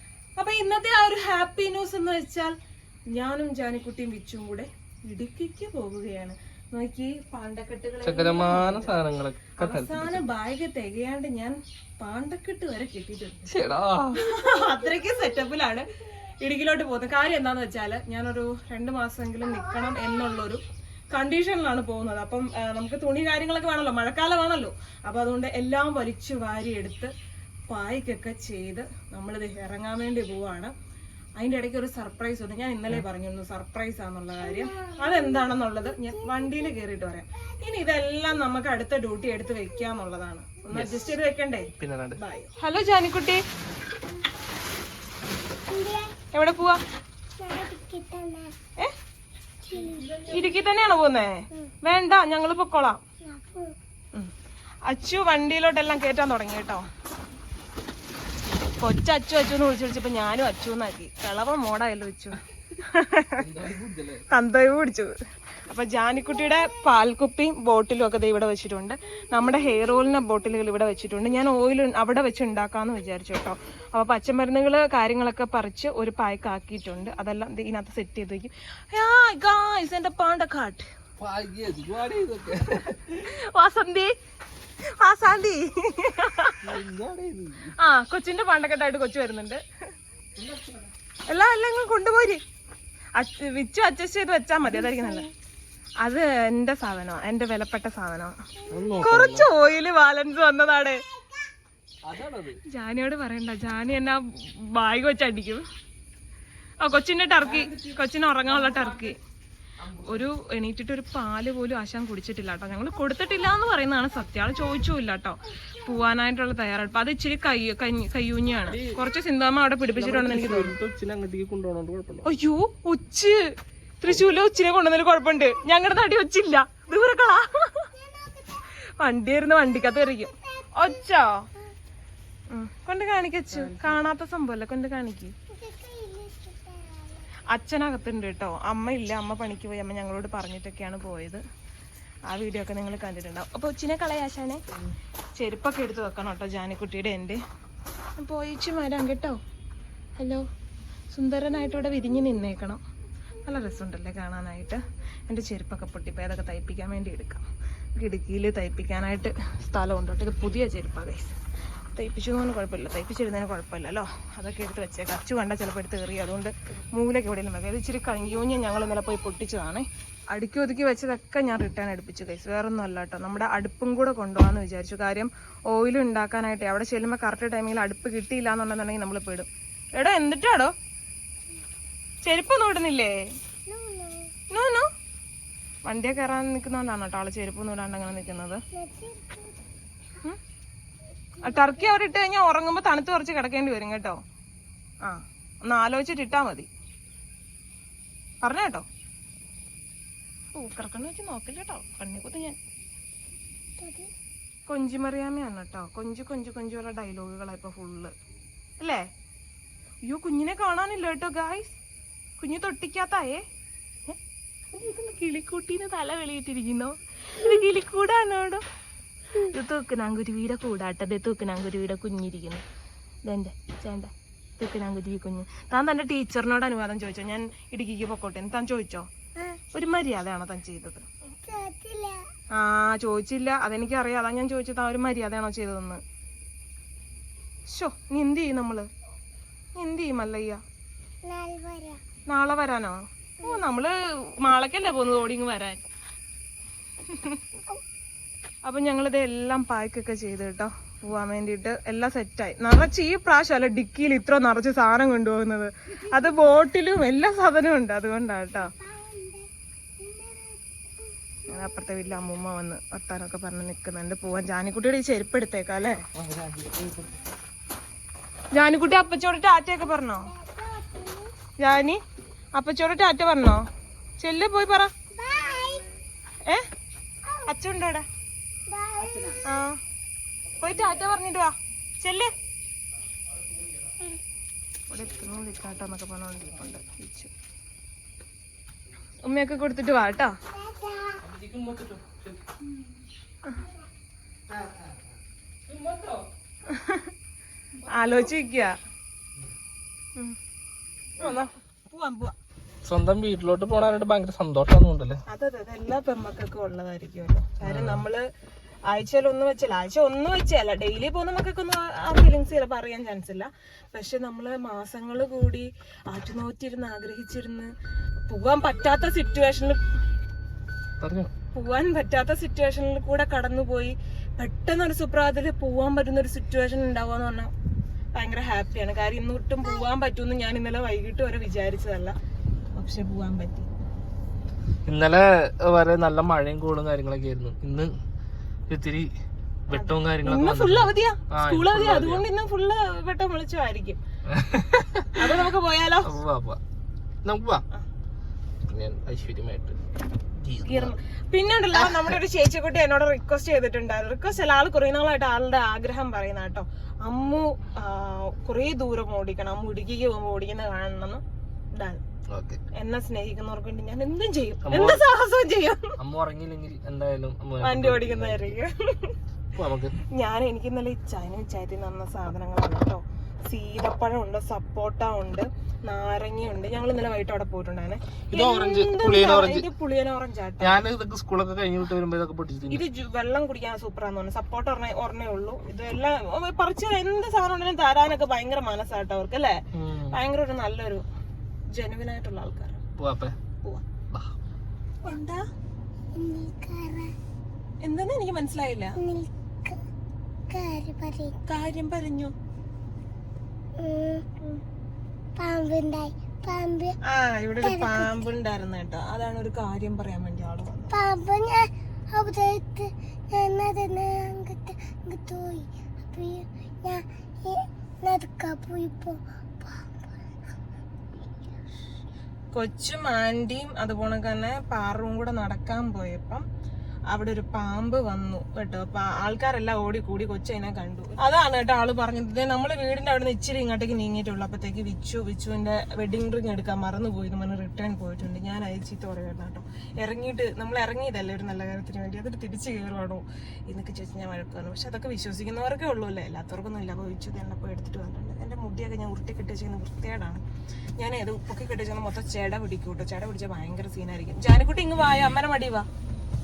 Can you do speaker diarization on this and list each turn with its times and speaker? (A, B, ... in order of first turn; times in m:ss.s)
0:00.4-0:02.6 A
0:03.1-0:09.0 A
0:08.0-0:10.2 B
0:09.6-0:13.6 A
0:13.5-0:14.3 B
0:14.1-0:15.9 A
0:16.4-0:27.1 A
0:27.7-0:30.7 A
0:31.4-0:43.4 A
0:40.7-0:41.2 B
0:41.7-0:42.2 B
0:45.7-0:46.2 C
0:46.3-0:46.8 A
0:47.4-0:48.5 C
0:49.6-0:50.2 C
0:50.0-0:50.4 B
0:50.2-0:53.0 A
0:53.2-0:53.8 C
0:54.9-0:56.9 A
0:58.8-1:03.4 A
1:03.4-1:04.3 B
1:04.3-1:20.9 A
1:21.2-1:23.3 B
1:23.1-1:24.2 A
1:24.9-1:26.7 A
1:26.6-1:27.7 B
1:27.8-1:29.6 A
1:30.4-1:30.9 B
1:31.3-1:32.4 A
1:33.2-1:35.3 A
1:34.8-1:35.2 C
1:36.0-1:38.4 A
1:38.7-1:39.5 B
1:39.0-1:41.0 A
1:42.0-1:42.6 B
1:42.7-1:45.6 A
1:46.8-1:49.2 A
1:47.4-1:48.0 B
1:48.6-1:49.1 B
1:49.8-1:50.2 B
1:50.0-2:00.7 A
1:58.7-1:59.0 B
1:59.9-2:02.3 B
2:02.2-2:07.9 A
2:08.0-2:08.6 C
2:09.0-2:11.4 A
2:12.5-2:15.3 A
2:13.5-2:14.0 B
2:15.5-2:17.2 C
2:17.5-2:21.4 A
2:22.3-2:24.6 A
2:25.4-2:27.4 A
2:28.2-2:29.4 A
2:30.2-2:30.5 A
2:31.1-2:32.8 A
2:33.4-2:41.3 A
2:42.0-3:00.7 A
3:02.2-3:03.2 A
3:03.7-3:04.3 C
3:04.5-3:04.9 A
3:05.8-3:08.6 A
3:08.7-3:09.6 C
3:11.4-3:11.9 C
3:11.4-3:14.2 A
3:15.0-3:16.7 A
3:18.4-3:18.8 A
3:20.6-3:22.6 A
3:23.8-3:24.1 C
3:24.7-3:28.1 A
3:28.8-3:29.1 A
3:30.1-3:31.8 A
3:32.4-3:33.4 A
3:34.7-3:38.6 A
3:39.4-3:42.6 A
3:43.2-3:49.1 A
3:49.7-3:51.1 A
3:51.4-3:52.3 C
3:52.5-3:56.0 A
3:57.7-3:58.9 A
3:59.8-4:00.6 A
4:01.2-4:02.0 C
4:02.3-4:05.8 A
4:07.1-4:07.4 A
4:08.6-4:18.7 A
4:18.8-4:19.5 C
4:20.0-4:20.6 C
4:21.5-4:26.0 A
4:26.2-4:27.0 B
4:28.5-4:30.3 A
4:30.4-4:31.3 C
4:31.6-4:32.0 A
4:32.6-4:33.6 A
4:34.2-4:34.9 A
4:35.1-4:35.9 C
4:37.4-4:38.1 A
4:38.7-4:39.4 C
4:39.4-4:39.8 A
4:40.6-4:42.3 A
4:44.9-4:47.3 A
4:49.2-4:50.4 A
4:50.5-4:51.2 C
4:51.2-4:52.4 B
4:55.7-4:56.2 B
4:56.7-4:57.1 A
4:57.9-4:58.8 A
5:01.2-5:01.5 B
5:01.9-5:02.4 A
5:02.8-5:05.2 B
5:05.3-5:08.3 A
5:07.6-5:08.0 B
5:08.9-5:17.7 A
5:18.3-5:19.9 A
5:21.0-5:21.3 B
5:21.5-5:27.5 A
5:28.2-5:32.2 A
5:32.8-5:33.7 A
5:34.9-5:37.9 B
5:38.7-5:39.1 B
5:39.7-5:42.3 B
5:39.7-5:44.0 A
5:44.3-5:45.4 B
5:45.1-5:46.2 A
5:46.0-5:46.6 B
5:47.2-5:47.6 B
5:48.7-5:49.8 B
5:50.4-5:50.9 B
5:50.7-6:01.2 A
6:01.7-6:02.0 A
6:02.3-6:02.6 B
6:02.7-6:06.0 A
6:04.6-6:05.1 B
6:06.0-6:08.6 B
6:07.6-6:09.2 A
6:09.6-6:10.0 B
6:10.1-6:20.8 A
6:18.3-6:19.7 B
6:20.6-6:22.8 B
6:22.7-6:29.6 A
6:29.7-6:30.2 B
6:30.1-6:31.0 A
6:31.7-6:32.8 A
6:33.0-6:33.4 B
6:35.0-6:35.4 A
6:36.2-6:37.1 C
6:37.8-6:39.0 A
6:39.0-6:39.8 C
6:40.5-6:41.4 C
6:41.5-6:42.3 A
6:43.8-6:44.3 C
6:45.4-6:47.0 C
6:47.0-6:51.0 A
6:47.6-6:48.3 C
6:50.9-7:00.1 C
7:02.5-7:06.4 A
7:07.1-7:30.4 A
7:31.0-7:35.9 A